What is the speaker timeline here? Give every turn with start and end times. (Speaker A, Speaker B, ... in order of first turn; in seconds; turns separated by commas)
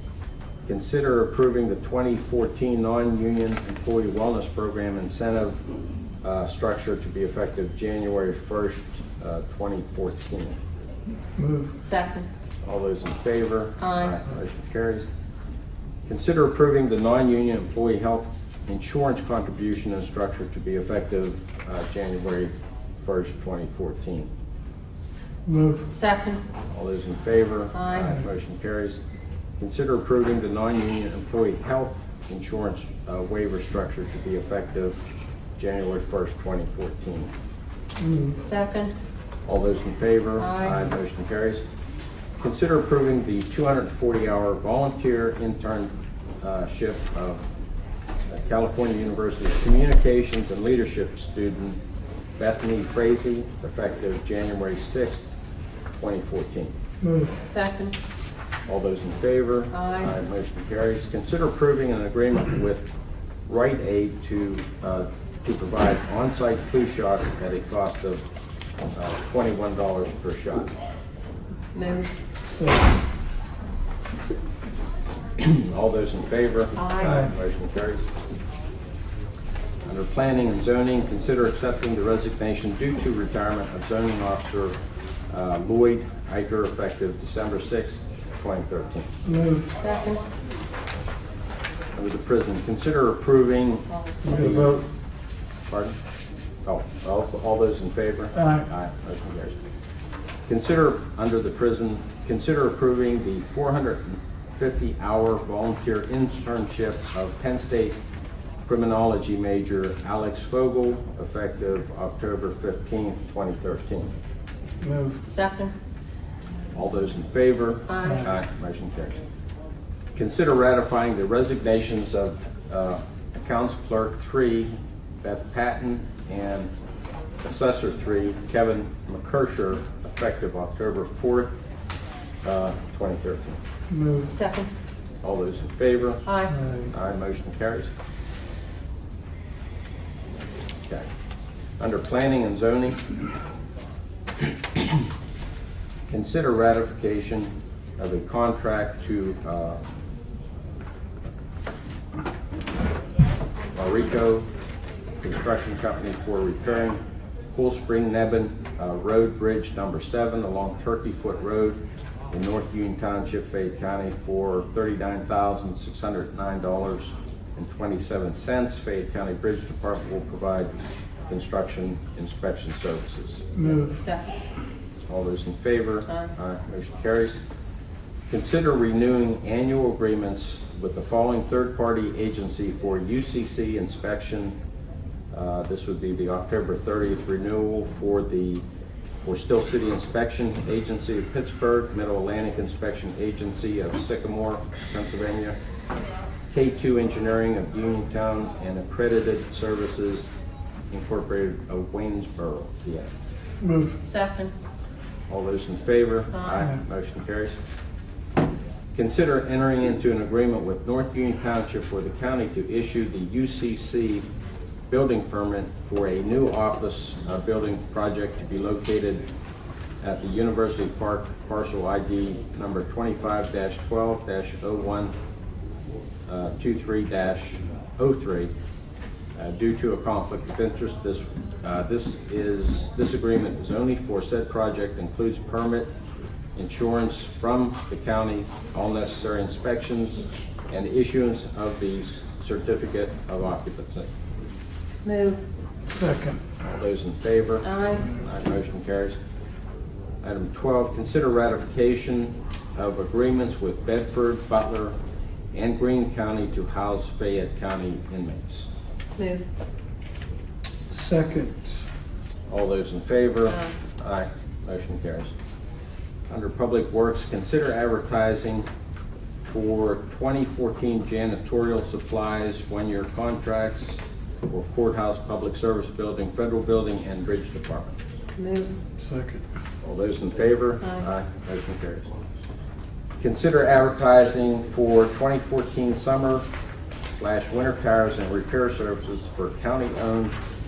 Speaker A: 0.7-5.6, Speaker A: 6.2-10.6, Speaker B: 11.4-11.7, Speaker C: 11.8-12.3, Speaker A: 12.7-15.1, Speaker C: 13.8-14.2, Speaker A: 16.1-24.3, Speaker B: 25.5-25.9, Speaker C: 25.9-26.4, Speaker A: 26.7-29.0, Speaker C: 27.7-28.1, Speaker A: 29.6-35.0, Speaker A: 35.6-37.3, Speaker B: 38.0-38.4, Speaker C: 38.4-38.9, Speaker A: 39.5-41.6, Speaker C: 40.4-40.9, Speaker A: 42.4-47.5, Speaker A: 48.3-51.8, Speaker A: 52.4-55.3, Speaker A: 56.0-56.7, Speaker B: 57.0-57.3, Speaker C: 57.5-58.0, Speaker A: 58.7-62.9, Speaker C: 59.7-60.1, Speaker A: 63.5-68.2, Speaker A: 68.9-70.7, Speaker C: 71.7-72.1, Speaker B: 72.5-72.8, Speaker A: 75.4-78.1, Speaker C: 76.8-77.3, Speaker B: 77.0-77.3, Speaker A: 79.8-84.8, Speaker A: 85.3-89.1, Speaker B: 89.2-89.7, Speaker C: 89.8-90.2, Speaker A: 92.0-94.9, Speaker C: 93.9-94.2, Speaker B: 94.2-94.8, Speaker A: 95.7-96.0, Speaker A: 96.7-99.6, Speaker B: 98.4-98.6, Speaker A: 100.5-108.0, Speaker A: 108.7-114.1, Speaker B: 114.8-115.2, Speaker C: 115.2-115.7, Speaker A: 116.7-119.2, Speaker C: 117.9-118.3, Speaker A: 120.2-126.7, Speaker A: 127.4-131.5, Speaker A: 132.4-133.6, Speaker B: 133.9-134.3, Speaker C: 134.3-134.7, Speaker A: 135.2-136.3, Speaker C: 136.2-136.6, Speaker B: 136.5-136.9, Speaker A: 136.9-137.9, Speaker A: 141.8-143.1, Speaker A: 146.1-149.8, Speaker A: 153.7-154.5, Speaker A: 155.2-157.0, Speaker A: 157.5-161.8, Speaker A: 162.3-170.7, Speaker A: 171.3-173.5, Speaker B: 173.5-174.0, Speaker C: 173.9-174.3, Speaker A: 175.1-177.4, Speaker C: 176.1-176.3, Speaker A: 178.3-184.6, Speaker A: 185.3-188.6, Speaker A: 189.2-195.6, Speaker A: 196.5-200.3, Speaker A: 200.9-203.1, Speaker B: 203.6-204.0, Speaker C: 204.0-204.5, Speaker A: 205.3-207.6, Speaker C: 206.3-206.7, Speaker A: 208.9-214.3, Speaker A: 214.9-219.2, Speaker A: 220.0-225.1, Speaker A: 226.3-228.5, Speaker A: 229.3-235.9, Speaker A: 236.6-244.1, Speaker C: 245.0-245.4, Speaker B: 245.9-246.4, Speaker A: 246.6-249.2, Speaker C: 247.6-248.1, Speaker A: 250.2-255.0, Speaker A: 255.5-258.7, Speaker C: 259.2-259.4, Speaker B: 260.9-261.8, Speaker A: 262.5-265.3, Speaker A: 266.3-268.7, Speaker A: 269.5-277.9, Speaker C: 278.4-278.8, Speaker B: 279.0-279.4, Speaker A: 279.8-282.1, Speaker A: 283.2-286.5, Speaker A: 287.1-290.4